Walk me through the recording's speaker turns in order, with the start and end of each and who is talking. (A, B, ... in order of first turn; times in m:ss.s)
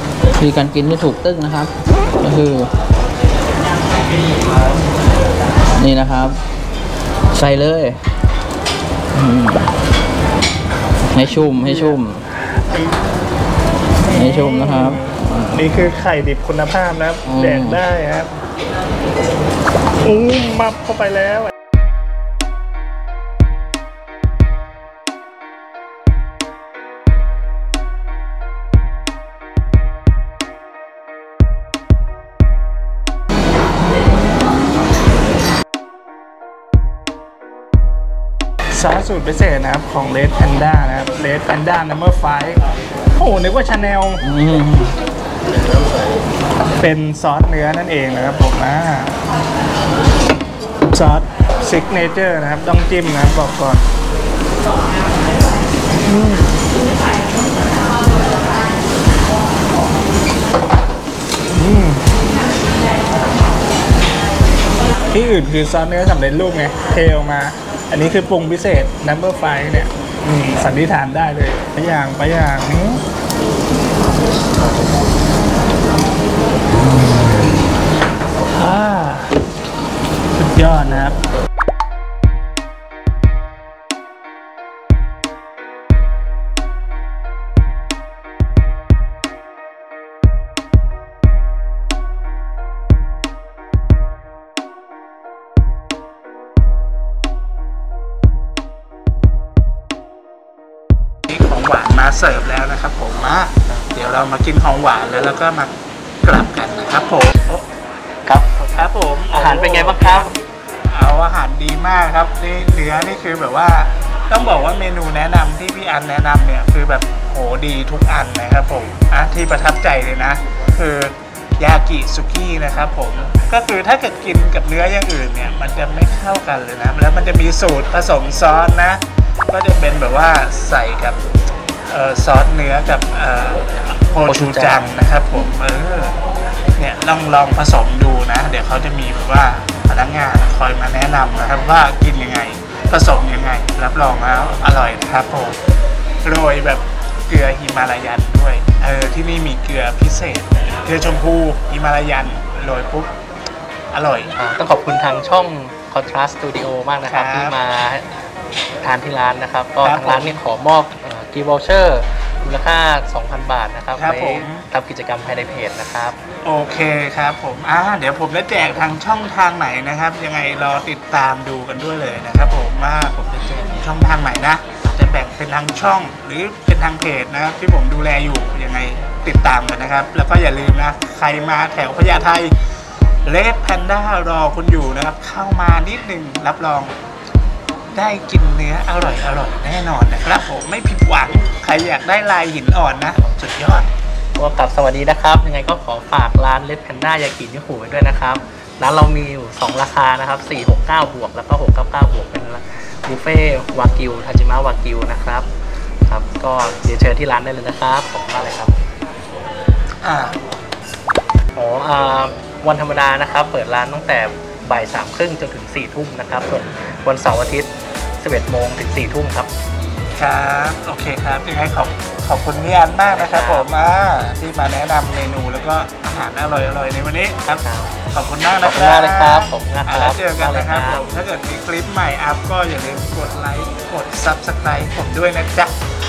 0:00.4-0:02.7 A
0:05.8-0:06.4 A
0:07.3-0:08.0 A
0:09.1-0:09.7 A
0:11.1-0:12.2 A
0:11.5-0:13.0 B
0:14.1-0:15.7 A
0:14.1-0:18.3 B
0:17.2-0:17.8 A
0:20.0-0:21.5 B
0:38.7-0:42.6 B
0:43.1-0:44.2 B
0:44.2-0:44.9 A
0:46.8-0:49.1 B
0:50.9-0:53.8 B
0:56.0-0:56.5 B
1:01.5-1:02.0 B
1:05.1-1:13.0 B
1:18.5-1:19.4 B
1:20.3-1:21.2 B
1:41.3-1:47.3 B
1:48.2-1:50.3 C
1:48.7-1:50.4 B
1:50.9-2:11.2 B
2:11.9-2:16.2 B
2:14.3-2:14.8 C
2:16.8-2:25.6 B
2:26.2-2:33.1 B
2:33.9-2:34.3 B
2:34.4-2:38.1 C
2:37.1-2:37.6 B
2:38.8-2:46.2 C
2:39.8-2:40.4 B
2:43.9-2:44.6 B
2:46.4-3:02.6 B
3:03.2-3:06.9 B
3:07.9-3:13.9 B
3:14.4-3:25.5 C
3:26.1-3:28.7 C
3:30.0-3:30.4 B
3:31.5-3:39.5 C
3:40.2-3:55.8 B
3:43.1-3:43.7 C
3:47.6-3:48.0 C
3:48.6-3:51.0 C